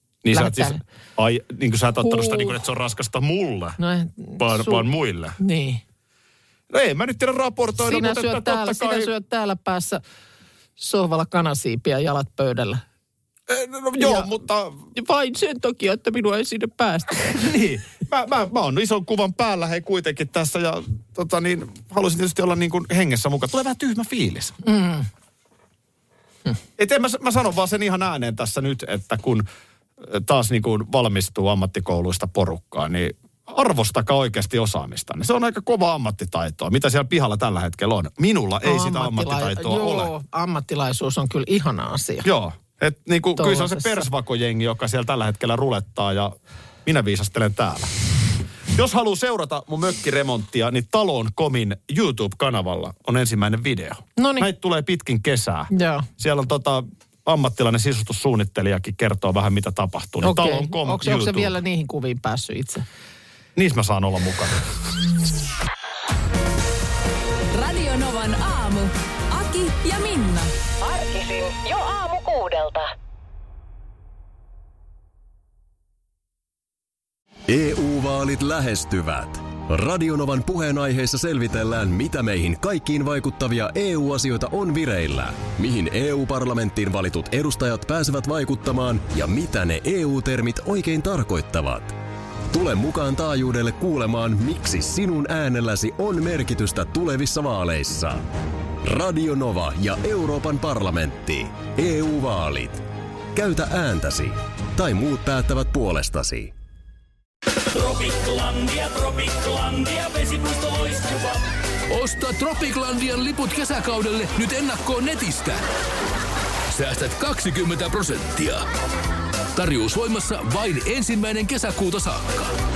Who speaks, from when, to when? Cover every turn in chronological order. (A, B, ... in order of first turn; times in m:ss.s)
0:00.2-0:03.8 A
0:00.3-0:00.8 B
0:02.0-0:02.6 B
0:03.8-0:05.8 B
0:04.4-0:05.4 A
0:06.7-0:09.1 A
0:07.8-0:10.0 B
0:10.8-0:12.8 B
0:13.5-0:14.8 A
0:14.0-0:14.3 B
0:14.9-0:17.4 B
0:17.3-0:24.6 A
0:24.6-0:25.1 B
0:26.8-0:29.4 A
0:30.0-0:40.1 A
0:38.6-0:42.3 B
0:42.2-0:46.3 A
0:43.4-0:44.1 B
0:46.8-0:47.9 A
0:48.7-1:01.6 A
0:54.2-0:54.5 B
0:55.7-0:56.1 B
1:00.2-1:02.9 B
1:03.6-1:04.6 A
1:07.5-1:10.5 C
1:10.8-1:12.9 D
1:17.5-1:32.0 E
1:32.5-1:38.3 E
1:38.8-1:46.5 E
1:47.7-1:55.6 F
1:56.7-1:58.6 F
1:59.6-2:02.5 F